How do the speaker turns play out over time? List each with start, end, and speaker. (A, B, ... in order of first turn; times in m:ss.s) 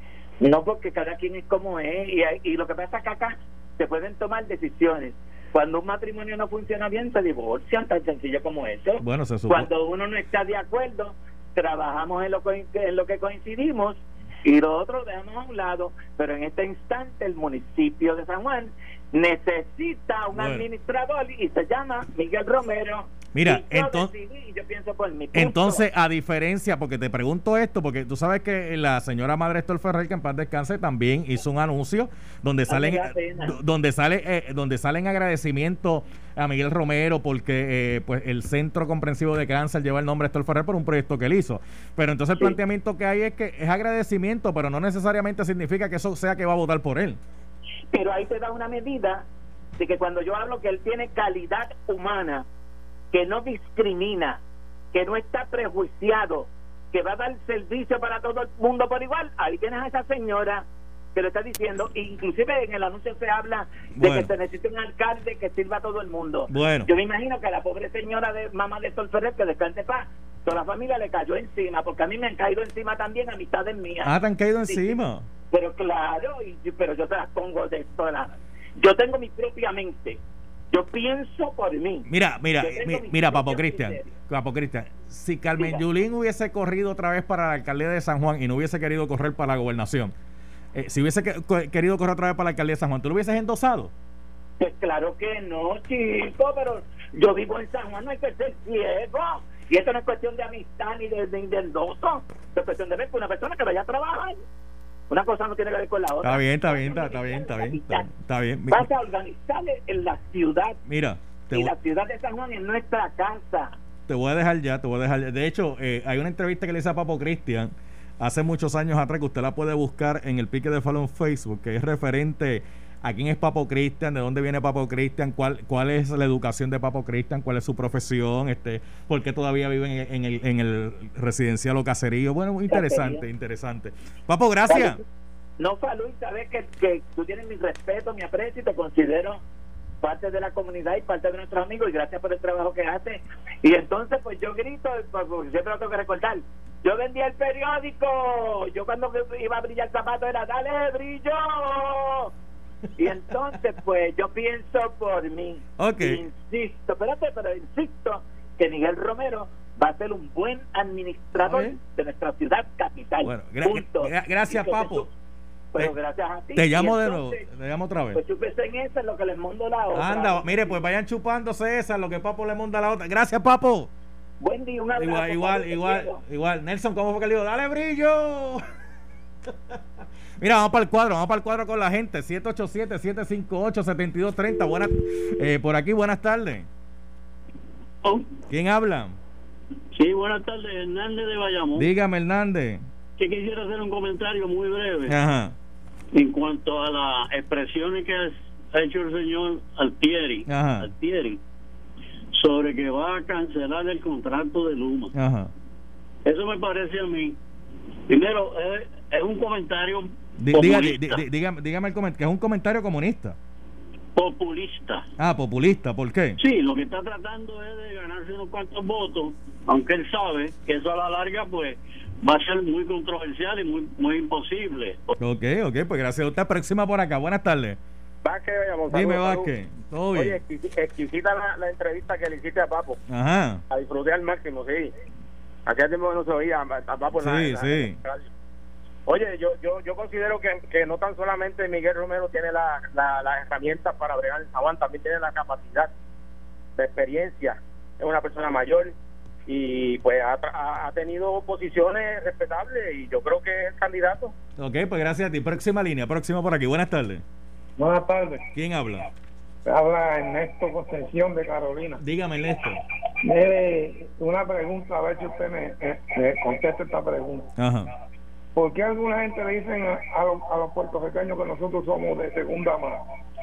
0:00.4-0:25.8 A
0:09.0-0:09.7 B
0:20.3-0:20.6 B
0:23.3-0:24.1 B
0:25.3-0:47.2 B
0:32.7-0:33.6 A
0:47.9-0:49.2 A
0:49.8-0:52.4 A
0:53.1-0:54.4 A
0:54.9-1:15.0 A
1:04.0-1:04.3 B
1:06.5-1:06.9 B
1:14.0-1:15.2 B
1:15.5-1:20.2 A
1:20.7-1:22.1 A
1:22.1-1:30.1 B
1:22.6-1:24.1 A
1:25.6-1:25.8 A
1:30.7-1:33.9 B
1:34.6-1:44.4 A
1:45.1-1:48.1 A
1:46.2-1:48.9 B
1:48.7-1:50.8 A
1:50.9-1:51.7 B
1:51.5-1:53.7 A
1:54.1-2:15.0 B
2:12.7-2:13.2 A
2:14.7-2:15.0 A
2:15.6-2:19.4 A
2:20.0-2:32.3 A
2:33.0-2:45.1 A
2:35.8-2:36.2 B
2:41.4-2:41.8 B
2:43.2-2:45.1 B
2:45.7-2:47.4 A
2:46.6-2:48.2 B
2:48.1-2:50.8 A
2:49.9-2:53.9 B
2:54.4-2:56.2 A
2:55.0-2:58.6 B
3:00.4-3:06.7 B
3:08.5-3:09.2 B
3:10.0-3:11.9 C
3:11.7-3:12.8 B
3:13.2-3:15.2 C
3:15.1-3:15.5 B
3:16.1-3:21.4 C
3:20.5-3:20.9 B
3:22.4-3:25.1 C
3:25.1-3:25.5 B
3:26.2-3:27.4 C
3:28.1-3:31.2 C
3:30.4-3:33.4 B
3:34.2-3:35.0 C
3:35.2-3:36.4 B
3:36.4-3:45.1 C
3:45.2-3:47.8 B
3:48.2-3:49.5 D
3:48.9-3:50.4 B
3:50.1-3:53.0 D
3:53.1-3:53.6 B
3:53.7-3:54.9 D
3:55.7-3:58.2 D
3:57.2-3:58.0 B
3:59.1-4:05.9 D
4:06.8-4:08.9 D
4:09.5-4:14.3 D
4:14.6-4:17.2 B
4:17.8-4:18.4 E
4:18.5-4:19.1 B
4:19.6-4:22.0 E
4:22.0-4:22.8 B
4:23.2-4:27.5 E
4:27.6-4:27.9 B
4:28.5-4:33.0 E